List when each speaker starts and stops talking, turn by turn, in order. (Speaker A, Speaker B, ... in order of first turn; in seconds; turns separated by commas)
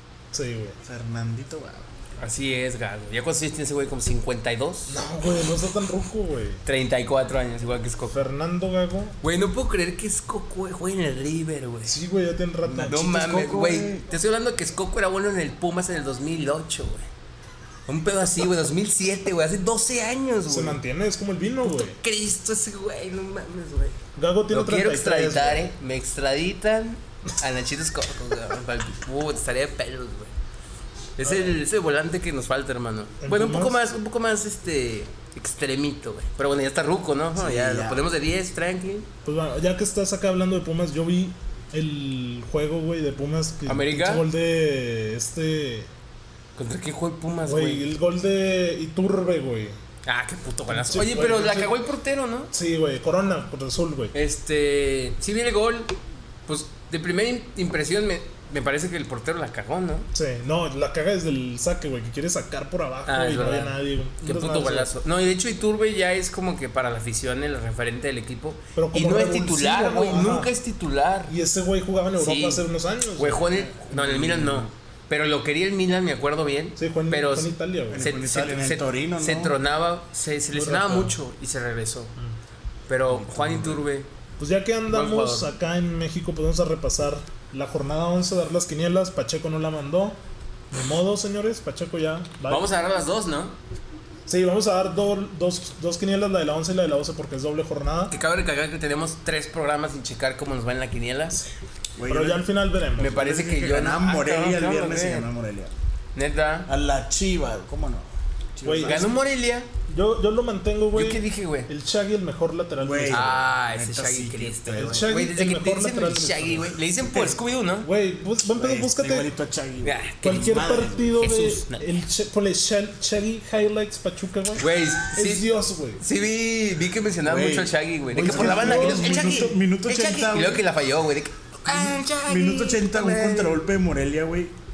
Speaker A: 0.3-0.8, Speaker B: 0.8-1.9, Speaker C: 2.2-5.0, Speaker A: 4.9-6.6, Speaker C: 6.7-8.2, Speaker A: 8.1-9.2, Speaker C: 9.2-12.0, Speaker A: 11.9-13.1, Speaker B: 12.7-14.1, Speaker C: 12.9-17.1, Speaker C: 17.9-20.8, Speaker A: 20.5-22.0, Speaker C: 21.6-24.0, Speaker A: 24.2-25.6, Speaker C: 24.5-30.3, Speaker C: 31.2-39.1, Speaker A: 31.2-31.6, Speaker A: 33.2-33.8, Speaker B: 37.4-38.0, Speaker A: 39.2-45.9, Speaker C: 43.7-44.3, Speaker C: 46.6-47.9, Speaker A: 47.5-49.8, Speaker C: 50.1-52.5, Speaker A: 50.7-51.7, Speaker A: 52.5-54.1, Speaker C: 54.1-56.0, Speaker C: 56.5-60.1, Speaker A: 60.1-64.9, Speaker C: 63.1-71.3, Speaker A: 68.8-70.5, Speaker A: 71.3-73.6, Speaker C: 72.2-72.6, Speaker C: 73.2-82.1, Speaker B: 73.8-74.7, Speaker A: 76.8-78.1, Speaker B: 77.9-79.6, Speaker A: 80.5-81.2, Speaker C: 82.9-84.1, Speaker B: 83.1-83.8, Speaker A: 84.4-90.2, Speaker C: 84.9-85.5, Speaker A: 90.7-92.7, Speaker C: 92.5-93.6, Speaker A: 94.3-98.1, Speaker C: 98.1-101.4, Speaker B: 102.0-102.5, Speaker A: 102.1-103.2, Speaker C: 103.0-105.3, Speaker B: 103.0-105.7, Speaker C: 106.2-106.7, Speaker B: 106.7-109.2, Speaker A: 108.6-109.1, Speaker C: 108.8-109.7, Speaker A: 109.9-113.4, Speaker C: 110.9-111.7, Speaker B: 112.8-115.1, Speaker C: 113.1-117.9, Speaker A: 114.8-117.3, Speaker A: 117.8-119.3, Speaker B: 118.5-121.1, Speaker C: 119.8-120.6, Speaker A: 120.2-126.0, Speaker C: 121.2-121.9, Speaker C: 124.6-133.6, Speaker B: 127.2-130.6, Speaker A: 128.1-129.4, Speaker B: 131.7-134.5